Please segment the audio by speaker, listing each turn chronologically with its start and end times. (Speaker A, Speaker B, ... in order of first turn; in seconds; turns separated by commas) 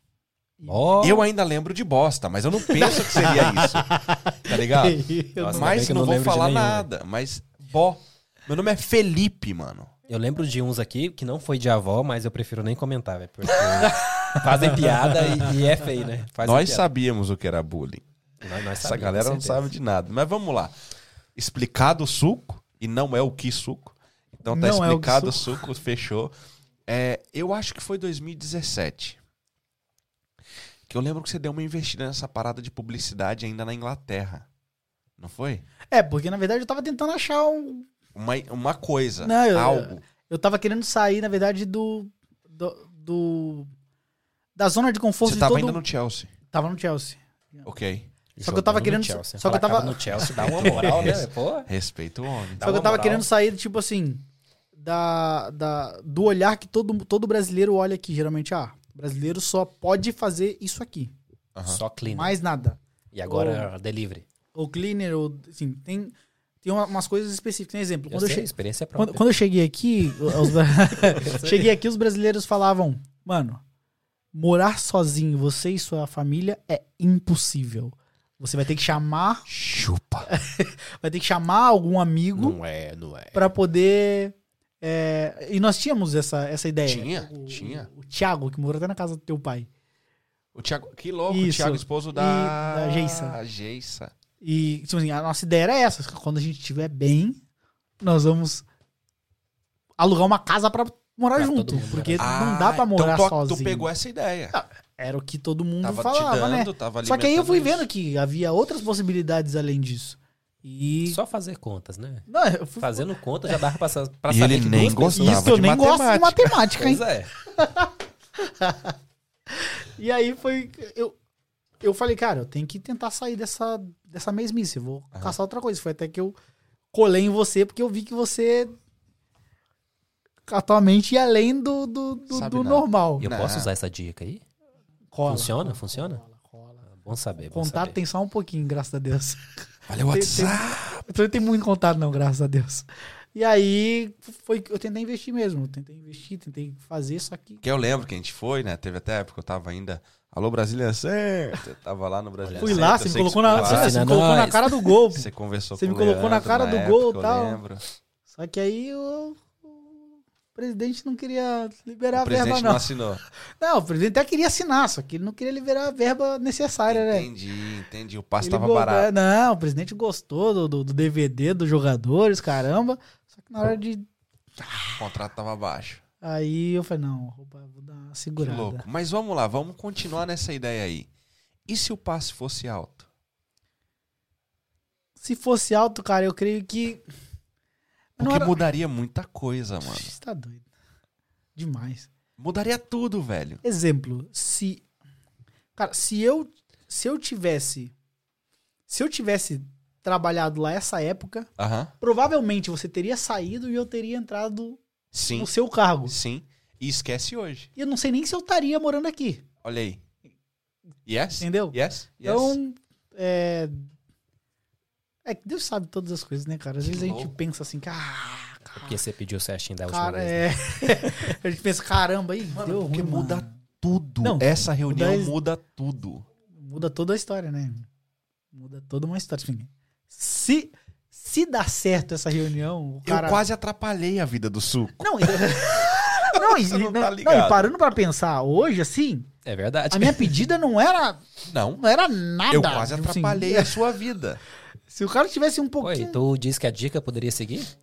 Speaker A: 0.6-1.2, Speaker B: 0.7-1.2, Speaker C: 1.0-3.9, Speaker A: 2.7-5.8, Speaker C: 4.5-5.0, Speaker B: 5.4-6.9, Speaker C: 5.5-9.9, Speaker B: 10.1-16.9, Speaker A: 13.9-15.2, Speaker C: 16.4-18.0, Speaker B: 18.4-19.7, Speaker C: 18.8-20.7, Speaker C: 21.4-26.3, Speaker A: 24.5-25.6, Speaker C: 26.9-29.2, Speaker C: 30.9-34.5, Speaker C: 35.2-35.6, Speaker A: 35.9-37.9, Speaker C: 38.1-40.0, Speaker A: 39.2-43.7, Speaker A: 44.6-45.8, Speaker C: 45.2-46.3, Speaker A: 46.5-47.6, Speaker C: 47.6-48.1, Speaker B: 48.4-51.7, Speaker A: 48.4-51.0, Speaker C: 50.1-52.7, Speaker B: 52.6-53.3, Speaker A: 52.6-54.2, Speaker A: 54.8-61.1, Speaker C: 61.5-61.8, Speaker B: 61.7-62.4, Speaker A: 62.1-63.7, Speaker B: 63.1-64.3, Speaker A: 64.5-73.6, Speaker B: 68.1-69.3, Speaker B: 71.0-71.7, Speaker A: 74.3-79.5, Speaker C: 79.5-80.3, Speaker A: 80.3-82.6, Speaker B: 82.4-83.5, Speaker A: 83.3-89.7, Speaker C: 86.8-87.9, Speaker C: 90.5-94.1, Speaker A: 91.3-93.4, Speaker A: 94.4-97.4, Speaker A: 98.0-98.7, Speaker A: 100.0-103.9, Speaker B: 101.4-102.3, Speaker C: 102.2-104.6, Speaker A: 104.5-111.2, Speaker C: 105.8-107.9, Speaker B: 111.1-112.3, Speaker A: 112.3-113.6, Speaker B: 112.8-115.5, Speaker C: 114.3-116.6, Speaker A: 115.1-119.0, Speaker B: 116.7-117.3, Speaker A: 119.5-121.2, Speaker A: 121.8-126.4, Speaker A: 126.9-128.8, Speaker A: 130.5-133.3, Speaker C: 132.3-133.7, Speaker B: 133.2-134.4, Speaker A: 135.1-136.8, Speaker B: 135.2-136.2, Speaker B: 136.9-138.0, Speaker A: 137.4-147.6, Speaker C: 139.9-141.0, Speaker C: 147.6-154.1, Speaker B: 152.4-154.9, Speaker A: 152.6-157.6, Speaker C: 155.1-157.8, Speaker A: 158.3-163.0, Speaker C: 162.1-163.2, Speaker A: 163.6-167.3, Speaker C: 166.9-169.1, Speaker A: 168.4-174.1, Speaker A: 174.6-175.1, Speaker C: 175.0-176.0, Speaker A: 176.2-178.8, Speaker C: 178.4-181.1, Speaker C: 181.7-183.1, Speaker A: 185.2-187.0, Speaker A: 188.2-188.6, Speaker C: 188.2-190.1, Speaker A: 189.8-190.7, Speaker A: 191.6-192.1, Speaker C: 192.4-193.6, Speaker A: 193.6-194.8, Speaker A: 195.8-197.9, Speaker A: 198.9-201.5, Speaker C: 201.6-201.9, Speaker A: 202.0-206.2, Speaker C: 205.1-205.5, Speaker C: 206.1-207.7, Speaker A: 207.8-209.4, Speaker C: 209.6-210.0, Speaker C: 211.1-212.6, Speaker A: 211.4-213.9, Speaker A: 215.2-219.0, Speaker C: 216.8-217.3, Speaker B: 218.8-221.1, Speaker A: 219.9-223.5, Speaker C: 222.5-226.3, Speaker A: 224.2-225.3, Speaker A: 226.5-227.9, Speaker A: 228.5-233.4, Speaker C: 233.1-237.8, Speaker A: 235.0-239.3, Speaker B: 239.4-240.4, Speaker A: 239.9-241.2, Speaker C: 241.5-241.8, Speaker A: 241.8-243.9, Speaker C: 242.5-244.4, Speaker A: 244.9-246.2, Speaker B: 245.8-247.7